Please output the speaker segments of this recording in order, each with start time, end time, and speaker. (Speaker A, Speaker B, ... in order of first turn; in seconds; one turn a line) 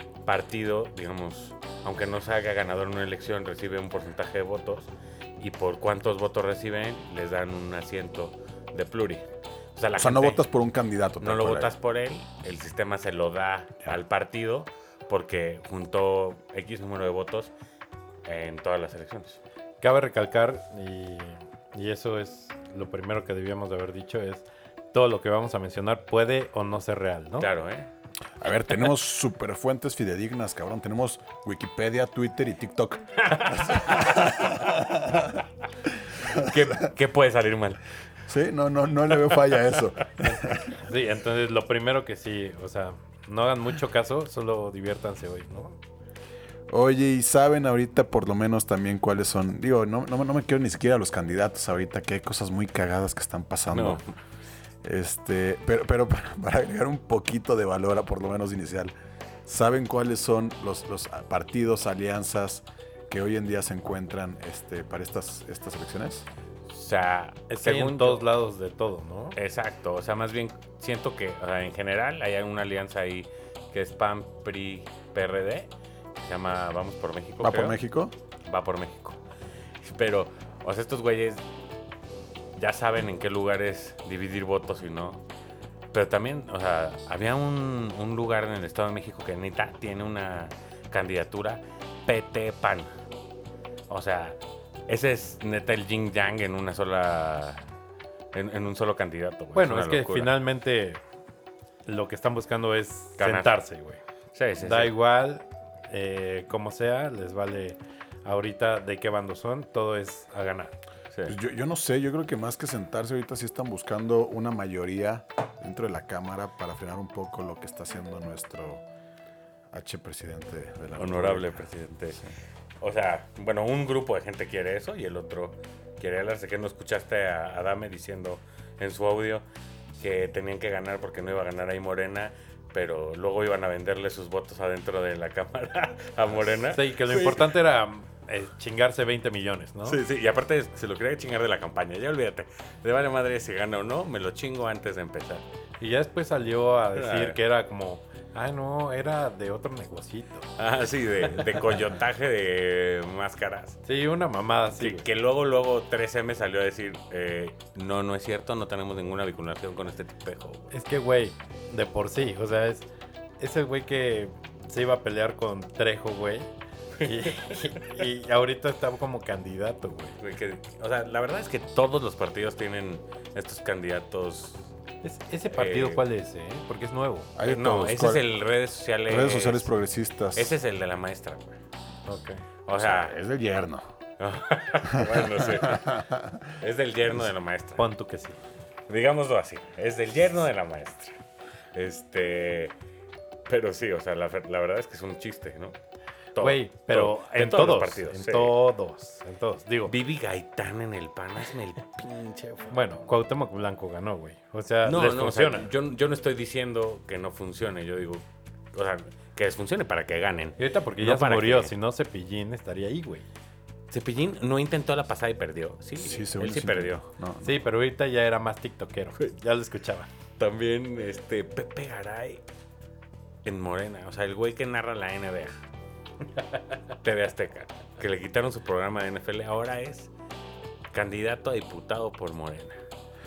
Speaker A: 0.2-10.4
Speaker B: 10.0-11.7
Speaker A: 11.2-17.5
Speaker A: 18.2-19.4
Speaker C: 19.8-27.5
Speaker A: 27.4-27.9
Speaker B: 28.4-35.4
Speaker A: 33.3-34.1
Speaker B: 36.2-36.8
Speaker A: 36.2-37.8
Speaker B: 38.3-40.6
Speaker C: 40.7-45.8
Speaker B: 46.7-54.0
Speaker A: 53.7-54.1
Speaker B: 54.8-58.9
Speaker B: 59.4-66.3
Speaker A: 66.7-68.3
Speaker C: 67.5-69.4
Speaker A: 69.3-77.8
Speaker B: 77.4-78.1
Speaker A: 78.5-79.2
Speaker A: 79.8-81.4
Speaker A: 82.5-85.2
Speaker A: 85.9-92.9
Speaker A: 93.9-97.7
Speaker A: 98.3-100.3
Speaker C: 99.5-101.0
Speaker C: 101.8-104.0
Speaker A: 103.2-103.5
Speaker A: 104.3-104.9
Speaker C: 104.6-110.7
Speaker B: 111.2-118.8
Speaker B: 119.7-122.3
Speaker A: 121.0-122.2
Speaker A: 122.8-129.4
Speaker A: 130.0-137.5
Speaker C: 136.7-140.0
Speaker A: 139.8-145.4
Speaker C: 145.8-150.5
Speaker A: 146.9-147.4
Speaker A: 150.6-153.8
Speaker C: 153.8-155.1
Speaker A: 154.8-160.7
Speaker C: 160.7-162.9
Speaker C: 163.4-166.5
Speaker A: 167.0-167.8
Speaker C: 167.0-170.2
Speaker A: 170.2-174.7
Speaker C: 175.0-177.3
Speaker A: 175.5-176.0
Speaker B: 177.3-178.3
Speaker A: 177.5-179.7
Speaker B: 179.1-180.5
Speaker A: 180.3-181.6
Speaker C: 182.1-182.4
Speaker A: 182.6-183.2
Speaker B: 182.7-183.8
Speaker A: 184.2-186.0
Speaker B: 184.9-186.5
Speaker A: 186.6-187.8
Speaker C: 187.8-188.4
Speaker A: 188.9-191.2
Speaker A: 191.7-192.7
Speaker A: 193.5-195.8
Speaker A: 196.3-198.5
Speaker C: 196.4-199.9
Speaker A: 199.9-202.8
Speaker C: 202.7-205.7
Speaker A: 204.8-211.7
Speaker C: 210.6-213.3
Speaker A: 213.9-217.0
Speaker B: 216.0-217.6
Speaker C: 217.4-220.1
Speaker A: 220.4-222.4
Speaker A: 223.4-225.6
Speaker A: 227.0-230.1
Speaker A: 230.9-232.8